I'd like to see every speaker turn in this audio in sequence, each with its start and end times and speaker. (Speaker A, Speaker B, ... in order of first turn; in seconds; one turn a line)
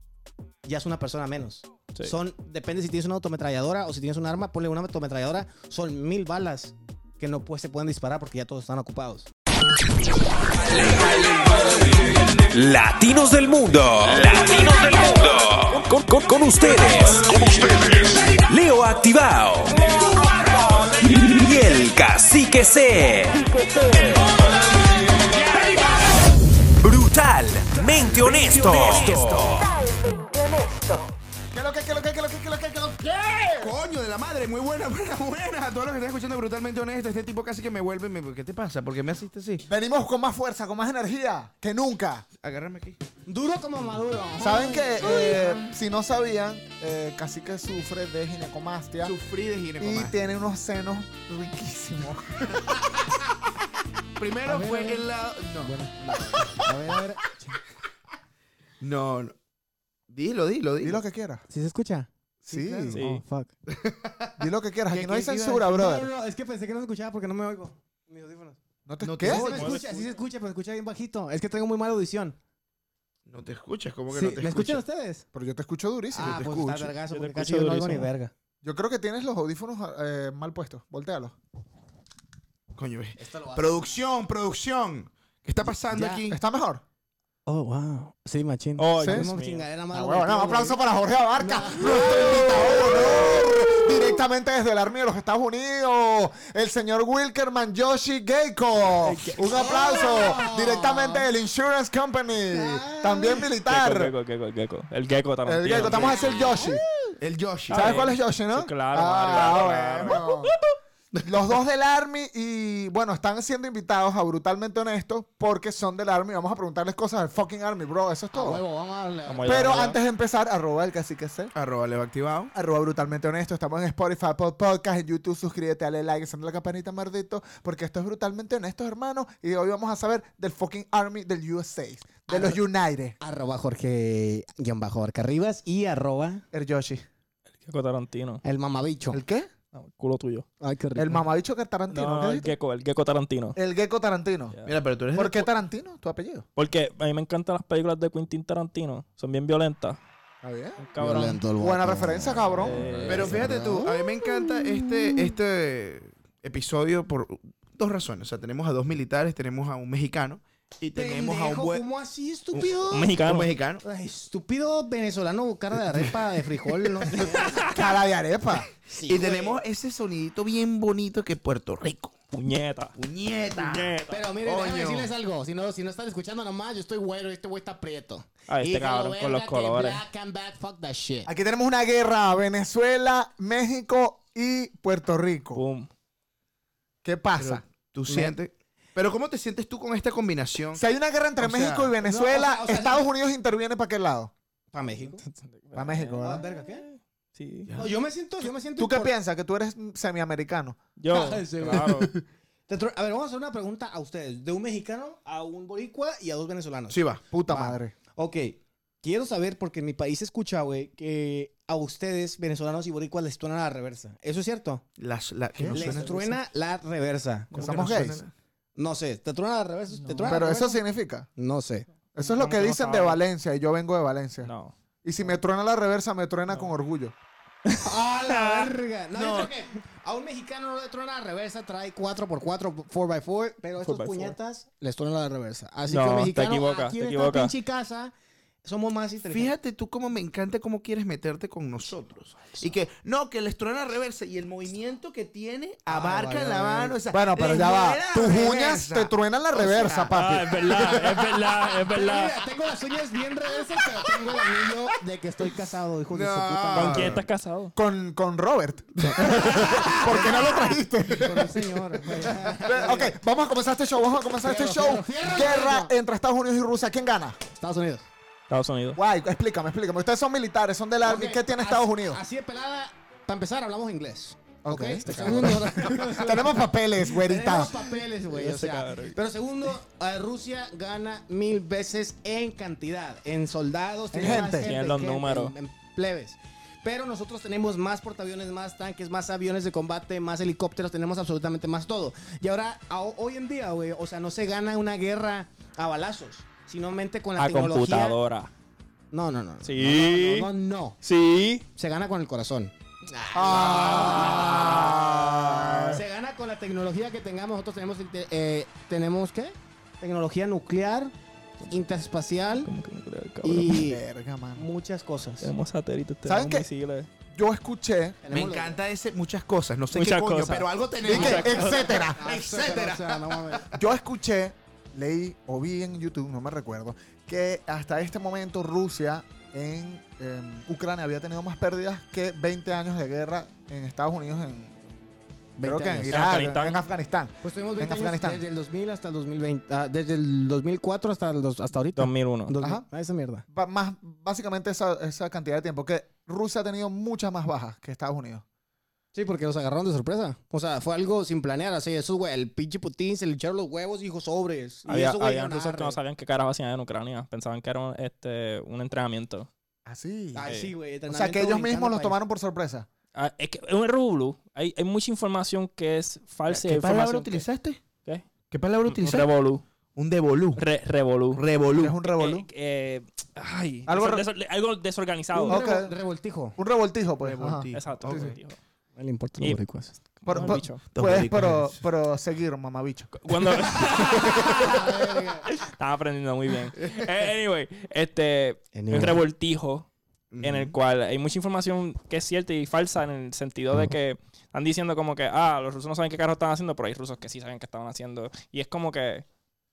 Speaker A: 0.7-9.3
Speaker B: 10.7-11.8
Speaker B: 12.5-24.2
Speaker B: 25.4-26.1
Speaker B: 26.8-29.8
Speaker C: 28.2-29.1
Speaker D: 31.5-33.7
Speaker C: 33.6-39.7
Speaker D: 39.7-42.3
Speaker C: 42.4-43.0
Speaker A: 43.3-45.5
Speaker D: 44.4-49.1
Speaker C: 45.0-45.6
Speaker C: 49.0-50.1
Speaker D: 49.8-52.8
Speaker C: 54.2-57.0
Speaker A: 54.5-55.1
Speaker A: 55.6-57.6
Speaker C: 58.8-59.4
Speaker C: 60.1-61.0
Speaker D: 60.8-61.4
Speaker A: 61.5-63.5
Speaker D: 62.5-63.0
Speaker E: 62.9-63.2
Speaker C: 63.7-64.4
Speaker D: 64.4-66.1
Speaker A: 64.9-68.6
Speaker D: 68.9-69.6
Speaker C: 69.0-69.9
Speaker A: 69.2-72.4
Speaker E: 69.3-70.1
Speaker C: 73.3-74.8
Speaker A: 74.1-75.2
Speaker D: 75.3-76.9
Speaker A: 76.1-78.3
Speaker C: 76.2-76.9
Speaker E: 77.1-78.1
Speaker D: 78.6-81.3
Speaker C: 82.7-86.4
Speaker A: 83.2-84.0
Speaker A: 85.9-86.3
Speaker D: 86.3-86.8
Speaker A: 87.5-90.8
Speaker E: 88.8-89.7
Speaker D: 89.0-89.3
Speaker D: 89.9-104.1
Speaker A: 91.4-93.8
Speaker A: 99.0-101.3
Speaker E: 99.1-100.3
Speaker A: 102.5-103.5
Speaker E: 103.7-106.3
Speaker D: 105.5-106.8
Speaker A: 105.7-107.2
Speaker C: 107.2-107.9
Speaker E: 107.7-110.6
Speaker D: 107.7-110.6
Speaker D: 111.2-118.6
Speaker A: 118.3-119.9
Speaker E: 119.3-120.0
Speaker D: 119.5-121.5
Speaker C: 121.5-122.5
Speaker D: 122.5-133.2
Speaker A: 132.3-132.6
Speaker A: 133.2-136.4
Speaker D: 136.5-137.1
Speaker E: 137.7-138.4
Speaker A: 138.4-139.2
Speaker D: 139.1-139.5
Speaker E: 139.7-140.5
Speaker A: 140.6-141.2
Speaker D: 140.9-142.5
Speaker E: 141.9-143.6
Speaker D: 143.6-144.6
Speaker C: 144.7-145.5
Speaker D: 145.1-146.5
Speaker E: 146.6-150.0
Speaker D: 150.4-150.8
Speaker E: 150.9-151.4
Speaker A: 151.0-155.2
Speaker D: 151.6-153.1
Speaker E: 152.5-153.5
Speaker C: 153.1-161.9
Speaker A: 160.9-163.1
Speaker E: 162.9-163.5
Speaker C: 163.2-163.8
Speaker A: 163.8-167.7
Speaker E: 167.1-167.8
Speaker D: 167.7-168.7
Speaker A: 168.9-169.6
Speaker C: 169.1-172.2
Speaker E: 172.3-173.0
Speaker C: 173.0-175.1
Speaker E: 173.5-174.3
Speaker A: 174.1-181.3
Speaker E: 178.5-180.0
Speaker D: 181.3-185.6
Speaker E: 185.6-185.9
Speaker D: 187.0-187.6
Speaker C: 187.4-190.8
Speaker A: 188.1-188.3
Speaker D: 190.7-194.3
Speaker C: 191.4-191.9
Speaker A: 192.0-193.1
Speaker A: 194.7-195.2
Speaker E: 195.2-197.7
Speaker D: 195.8-196.4
Speaker A: 196.2-196.9
Speaker C: 197.7-197.9
Speaker A: 197.8-199.1
Speaker D: 198.8-200.8
Speaker E: 201.0-202.1
Speaker A: 201.1-202.1
Speaker A: 202.7-214.8
Speaker C: 206.9-207.2
Speaker D: 207.3-207.9
Speaker C: 215.0-216.3
Speaker D: 215.6-216.0
Speaker A: 215.7-217.9
Speaker C: 217.5-218.3
Speaker D: 217.6-218.2
Speaker A: 218.8-220.8
Speaker E: 220.0-220.5
Speaker D: 220.2-221.3
Speaker A: 221.4-221.9
Speaker D: 222.2-224.5
Speaker E: 222.2-223.2
Speaker E: 224.4-224.7
Speaker D: 225.0-227.1
Speaker E: 227.7-228.7
Speaker A: 227.8-238.1
Speaker C: 229.1-229.5
Speaker E: 233.8-234.4
Speaker E: 235.9-237.5
Speaker A: 238.6-239.5
Speaker C: 239.3-250.1
Speaker A: 245.9-246.5
Speaker D: 245.9-251.1
Speaker E: 250.1-252.4
Speaker A: 251.2-257.2
Speaker C: 254.4-254.7
Speaker C: 256.1-257.2
Speaker E: 256.7-257.7
Speaker D: 257.8-267.4
Speaker C: 259.0-259.3
Speaker A: 259.2-263.1
Speaker A: 264.4-265.9
Speaker A: 267.5-268.1
Speaker E: 268.5-269.0
Speaker D: 268.9-272.2
Speaker A: 271.0-298.2
Speaker D: 274.6-278.0
Speaker E: 278.3-279.2
Speaker D: 284.1-284.7
Speaker E: 284.2-285.5
Speaker E: 297.4-298.5
Speaker A: 299.1-301.0
Speaker E: 299.6-300.5
Speaker E: 301.0-301.6
Speaker A: 301.7-305.0
Speaker D: 303.3-306.0
Speaker E: 303.7-306.0
Speaker A: 305.9-311.1
Speaker A: 311.7-312.7
Speaker E: 312.6-313.9
Speaker A: 313.4-314.0
Speaker D: 313.7-314.6
Speaker A: 314.6-315.5
Speaker E: 315.4-317.1
Speaker D: 316.3-316.7
Speaker D: 317.3-318.2
Speaker A: 318.2-318.8
Speaker C: 318.3-323.8
Speaker E: 319.9-322.0
Speaker D: 321.1-322.2
Speaker A: 321.1-323.7
Speaker D: 323.8-334.8
Speaker A: 335.6-336.3
Speaker D: 335.6-338.4
Speaker E: 336.1-336.8
Speaker A: 337.4-343.4
Speaker E: 342.0-342.5
Speaker D: 342.6-342.9
Speaker D: 343.5-348.4
Speaker A: 349.1-356.0
Speaker E: 354.9-359.5
Speaker D: 359.9-360.5
Speaker A: 360.3-362.2
Speaker E: 360.4-360.7
Speaker D: 361.1-362.9
Speaker E: 363.1-367.4
Speaker C: 366.5-367.8
Speaker C: 368.5-369.3
Speaker E: 368.9-369.6
Speaker C: 370.0-370.6
Speaker E: 370.6-371.4
Speaker C: 371.3-372.0
Speaker D: 371.7-372.5
Speaker E: 372.1-375.6
Speaker D: 373.9-374.3
Speaker A: 375.3-376.6
Speaker D: 375.5-375.9
Speaker D: 376.6-378.4
Speaker C: 377.2-378.4
Speaker E: 377.7-378.6
Speaker A: 379.0-380.0
Speaker E: 380.2-380.8
Speaker D: 380.3-384.7
Speaker C: 380.5-381.8
Speaker E: 383.2-389.9
Speaker A: 384.4-385.5
Speaker C: 386.8-387.1
Speaker A: 388.8-389.2
Speaker C: 390.3-390.7
Speaker E: 390.4-399.2